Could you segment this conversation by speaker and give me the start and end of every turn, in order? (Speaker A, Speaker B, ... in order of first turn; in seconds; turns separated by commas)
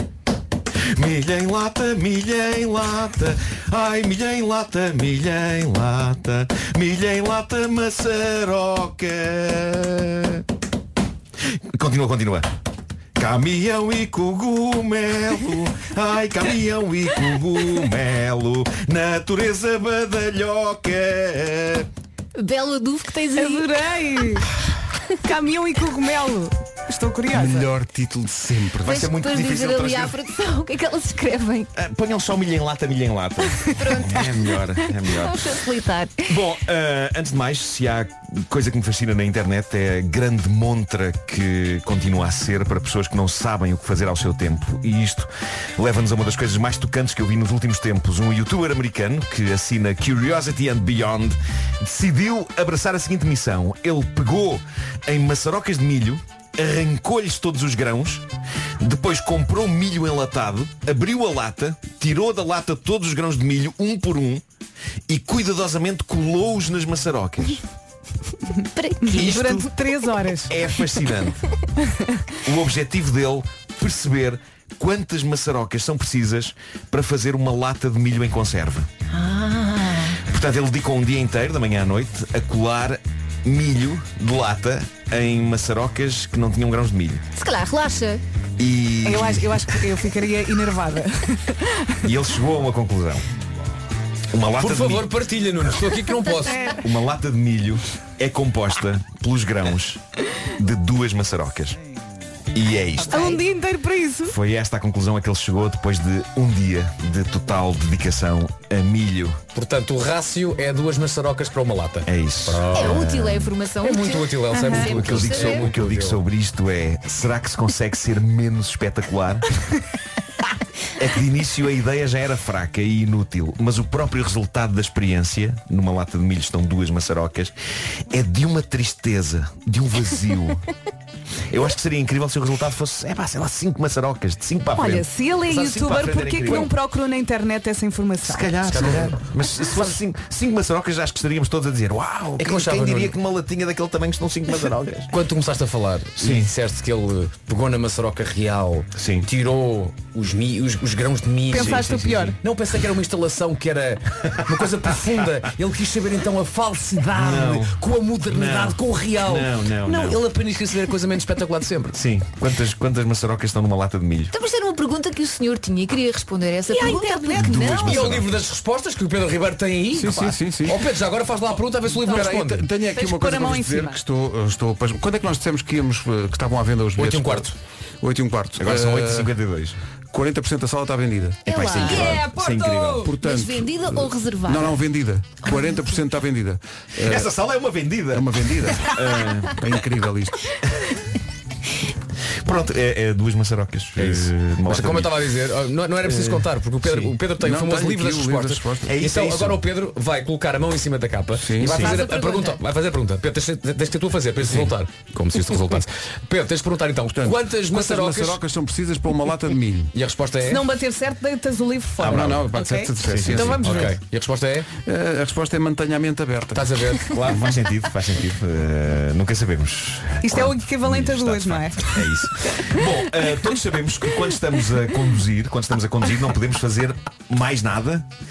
Speaker A: 0.9-10.4, Speaker A: 11.7-12.5, Speaker A: 13.2-21.9, Speaker B: 22.4-23.7, Speaker C: 23.4-24.5, Speaker C: 25.2-27.7, Speaker D: 27.3-29.0, Speaker A: 28.9-30.1, Speaker B: 28.9-31.7, Speaker A: 31.8-35.6, Speaker B: 33.6-36.3, Speaker A: 36.3-58.2, Speaker A: 58.8-64.4, Speaker A: 65.1-67.6, Speaker B: 68.8-69.7, Speaker C: 69.0-70.5, Speaker A: 69.1-69.7, Speaker A: 70.5-71.4, Speaker A: 72.5-78.9, Speaker B: 79.1-80.2, Speaker A: 80.3-87.2, Speaker B: 87.3-88.2, Speaker A: 88.6-89.6, Speaker C: 89.0-91.9, Speaker A: 92.0-93.2, Speaker A: 94.3-95.1, Speaker E: 94.6-96.7, Speaker B: 96.2-96.7, Speaker C: 96.5-96.8, Speaker A: 96.8-100.0, Speaker A: 100.6-101.8, Speaker A: 102.5-103.4, Speaker C: 103.1-104.4, Speaker A: 104.2-109.4, Speaker E: 109.5-113.2, Speaker A: 112.1-113.5, Speaker B: 112.7-115.7, Speaker E: 113.8-116.2, Speaker A: 114.7-119.5, Speaker A: 121.0-127.5, Speaker A: 128.1-130.6, Speaker A: 131.5-136.7, Speaker C: 134.7-138.5, Speaker A: 138.2-145.1, Speaker E: 138.6-140.0, Speaker E: 142.4-143.2, Speaker E: 145.1-162.0, Speaker A: 146.2-146.5, Speaker A: 148.9-149.3, Speaker C: 151.5-152.4, Speaker A: 151.6-152.0, Speaker A: 157.1-160.2, Speaker A: 161.9-164.3, Speaker B: 164.3-168.2, Speaker C: 166.7-167.6, Speaker A: 167.4-168.4, Speaker E: 167.6-172.7, Speaker D: 169.9-170.8, Speaker D: 172.1-179.3, Speaker C: 172.9-174.0, Speaker E: 177.0-177.5, Speaker A: 178.6-179.8, Speaker D: 180.1-181.4, Speaker A: 181.5-183.1, Speaker B: 181.5-182.3, Speaker C: 181.8-183.1, Speaker D: 183.0-187.3, Speaker B: 183.2-184.8, Speaker B: 185.4-185.8, Speaker A: 187.1-188.3, Speaker D: 188.1-188.9, Speaker A: 188.9-189.6, Speaker D: 189.6-190.4, Speaker A: 192.4-195.2, Speaker E: 194.0-208.4, Speaker A: 196.0-197.1, Speaker D: 197.0-199.0, Speaker A: 198.9-199.6, Speaker D: 201.4-201.9, Speaker B: 201.8-202.6, Speaker D: 204.4-204.7, Speaker D: 207.1-209.9, Speaker E: 209.9-210.7, Speaker C: 210.4-213.9, Speaker D: 212.0-214.0, Speaker A: 213.0-213.7, Speaker E: 213.3-214.7, Speaker D: 214.8-216.8, Speaker E: 216.5-217.4, Speaker A: 217.1-228.1, Speaker C: 220.2-222.6